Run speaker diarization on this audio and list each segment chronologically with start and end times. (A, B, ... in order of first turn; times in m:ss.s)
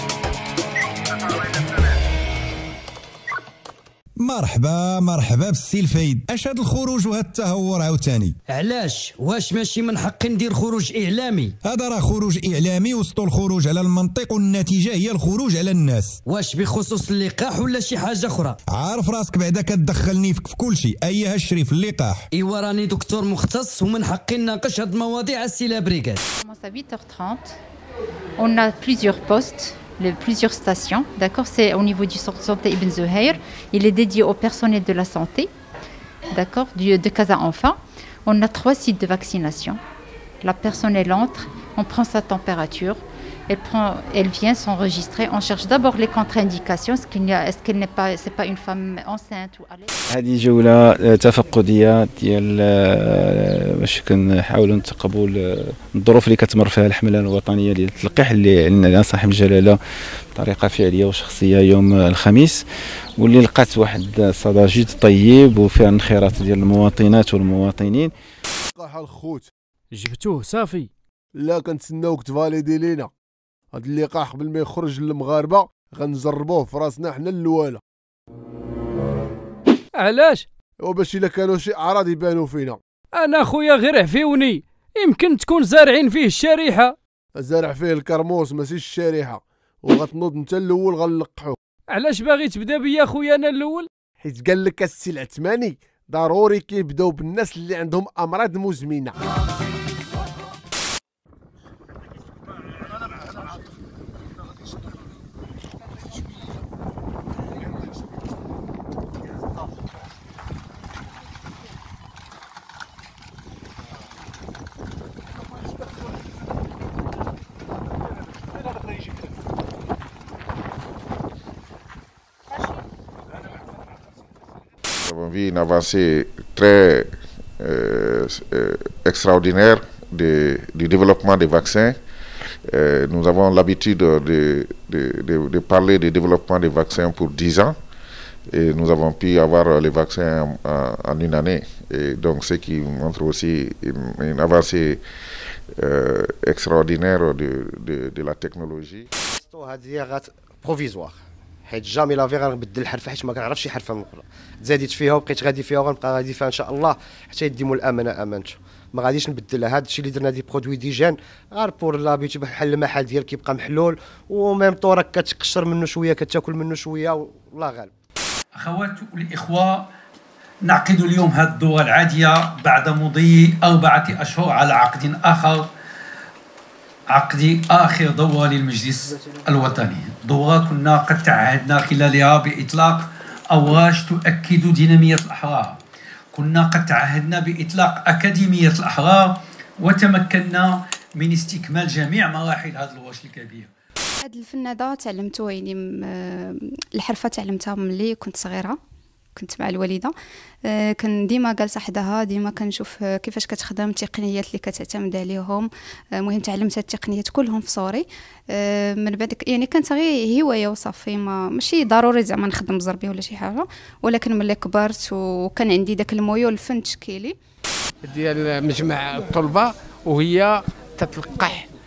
0:04.2-0:08.4 A
0:08.5-0:11.5 B
0:11.6-0:16.2 A
0:16.3-0:18.6 B
0:18.7-0:22.2 A
0:22.3-0:26.2 B
0:26.4-0:27.6 C
0:28.4-0:35.5 C
0:36.3-0:39.8 C
0:40.4-0:49.9 C
0:50.1-0:59.8 D
1:00.3-1:02.6 D
1:03.2-1:08.1 D
1:08.7-1:09.5 E
1:10.0-1:10.9 F
1:11.4-1:13.1 E
1:13.7-1:17.8 E
1:20.0-1:20.4 F
1:20.8-1:22.8 E
1:23.2-1:26.9 F
1:27.4-1:31.6 E
1:32.0-1:33.9 F
1:34.2-1:39.2 E
2:05.0-2:12.0 G
2:12.7-2:17.7 G
2:18.5-2:25.0 G
2:25.8-2:29.0 G
2:29.4-2:31.2 H
2:31.7-2:47.9 H
2:48.6-2:49.9 I
2:50.6-2:55.7 I
2:57.1-3:05.8 I
3:06.3-3:13.7 I
3:14.2-3:18.8 J
3:19.4-3:20.1 J
3:20.7-3:25.7 J
3:26.2-3:37.3 J
3:38.0-3:41.7 K